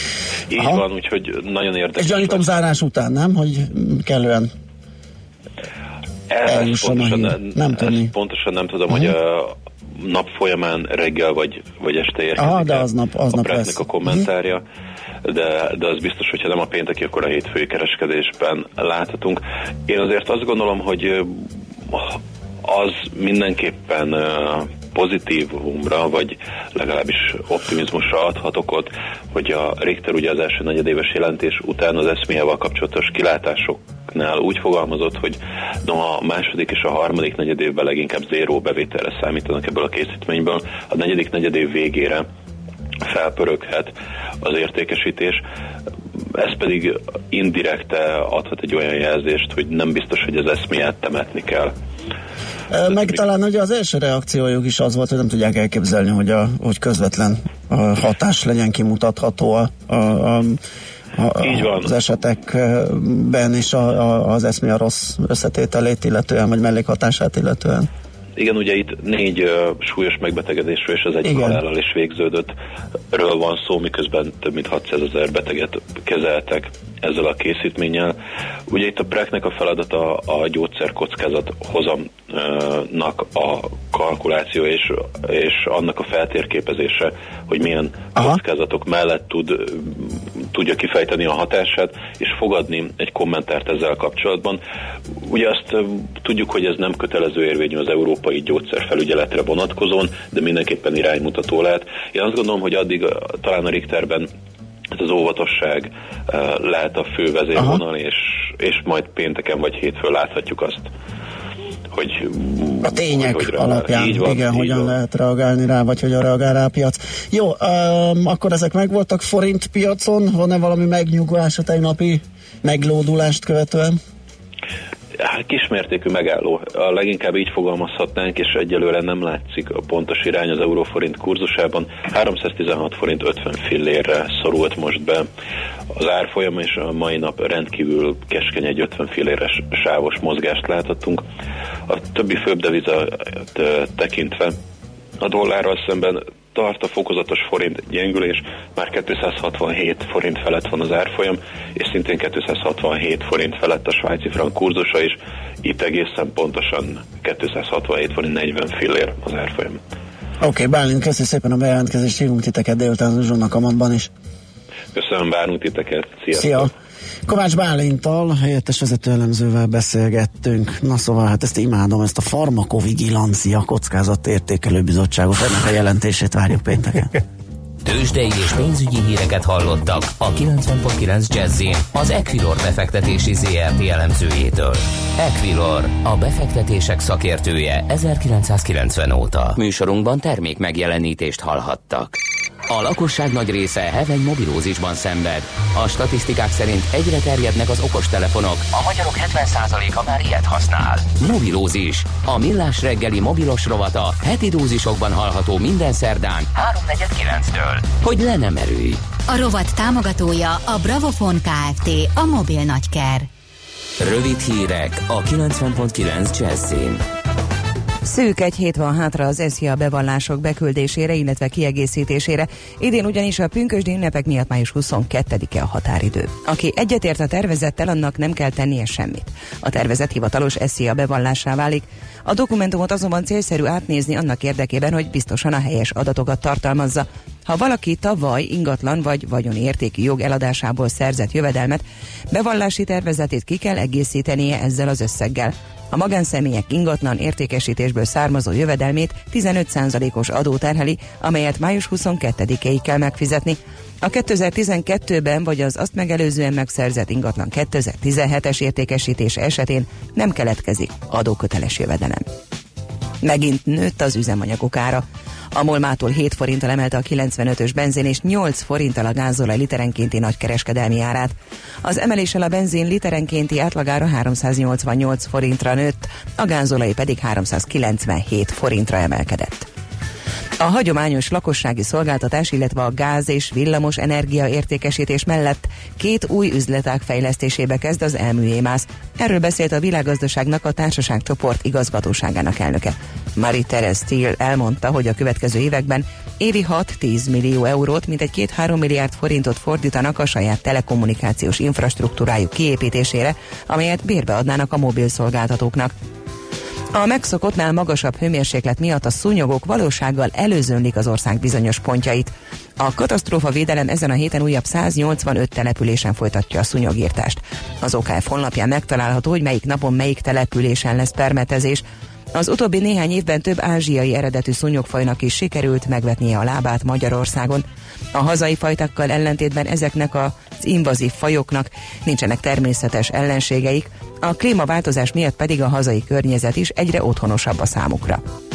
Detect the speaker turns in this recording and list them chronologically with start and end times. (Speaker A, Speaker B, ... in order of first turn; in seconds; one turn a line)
Speaker A: 0.5-2.5
Speaker B: 0.5-0.8
Speaker B: 1.9-4.5
Speaker A: 6.3-14.6
Speaker B: 6.4-8.1
Speaker B: 12.4-14.2
Speaker A: 15.2-22.1
Speaker A: 22.6-42.2
Speaker A: 43.0-45.4
Speaker A: 46.3-51.7
Speaker B: 52.7-60.6
Speaker A: 52.9-53.2
Speaker B: 61.1-67.9
Speaker A: 61.4-61.9
Speaker A: 68.4-72.5
Speaker B: 71.2-71.6
Speaker A: 73.1-78.1
Speaker A: 78.7-94.6
Speaker A: 95.2-104.3
Speaker A: 104.9-110.9
Speaker B: 107.5-107.8
Speaker A: 111.9-114.9
Speaker B: 112.8-124.0
Speaker A: 125.2-135.2
Speaker A: 135.9-141.2
Speaker A: 141.9-144.6
Speaker A: 145.2-159.8
Speaker B: 160.4-164.1
Speaker A: 164.9-166.7
Speaker B: 166.3-166.7
Speaker B: 167.3-177.2
Speaker C: 177.8-192.2
Speaker C: 192.7-209.0
Speaker D: 209.3-213.3
Speaker C: 214.0-217.0
Speaker E: 218.0-262.2
Speaker E: 263.2-279.7
Speaker E: 280.6-305.9
Speaker E: 306.9-321.8
Speaker E: 322.3-338.2